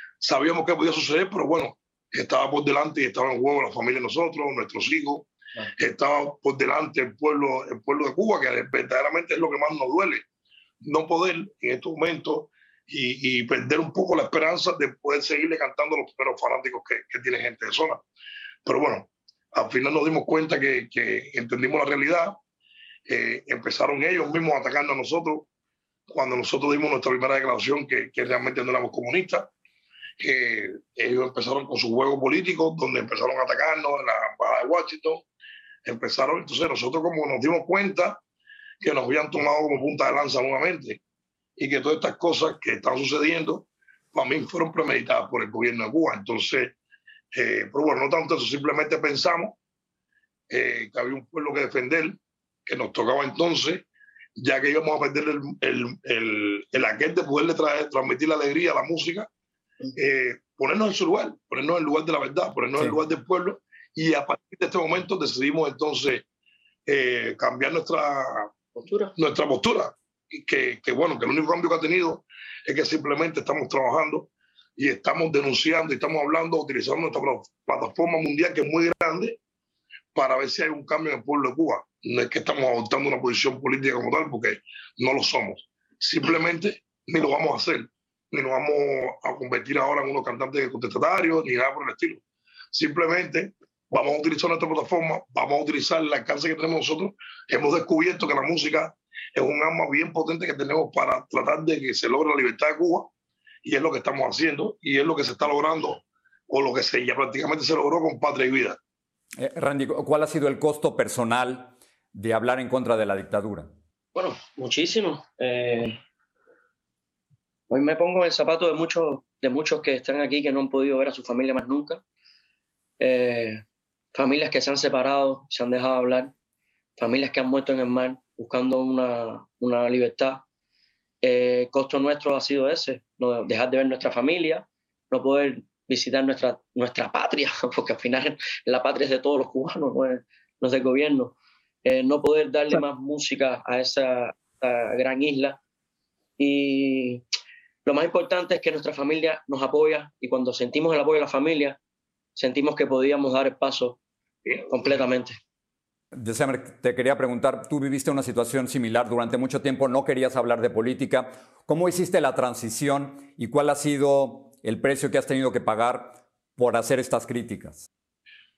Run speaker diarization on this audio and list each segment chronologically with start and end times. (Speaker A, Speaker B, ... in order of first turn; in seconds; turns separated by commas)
Speaker A: 0.2-10.2, Speaker A: 10.8-18.0, Speaker A: 18.6-22.4, Speaker A: 23.1-25.5, Speaker A: 26.1-29.5, Speaker A: 30.2-35.3, Speaker A: 35.9-38.2, Speaker A: 38.8-41.0, Speaker A: 41.6-46.8, Speaker A: 47.3-49.6, Speaker A: 50.5-59.3, Speaker A: 60.0-66.2, Speaker A: 66.9-68.5, Speaker B: 68.8-69.1, Speaker A: 69.2-79.4, Speaker A: 80.1-92.2, Speaker A: 92.7-103.1, Speaker A: 103.6-108.8, Speaker C: 109.4-113.7, Speaker B: 114.2-116.0, Speaker B: 117.7-122.0, Speaker B: 123.0-123.6, Speaker B: 124.1-126.3, Speaker B: 127.0-130.4, Speaker B: 131.2-145.6, Speaker B: 146.4-147.2, Speaker B: 147.8-151.8, Speaker B: 152.4-154.0, Speaker A: 154.5-155.0, Speaker B: 154.7-155.3, Speaker C: 156.1-167.9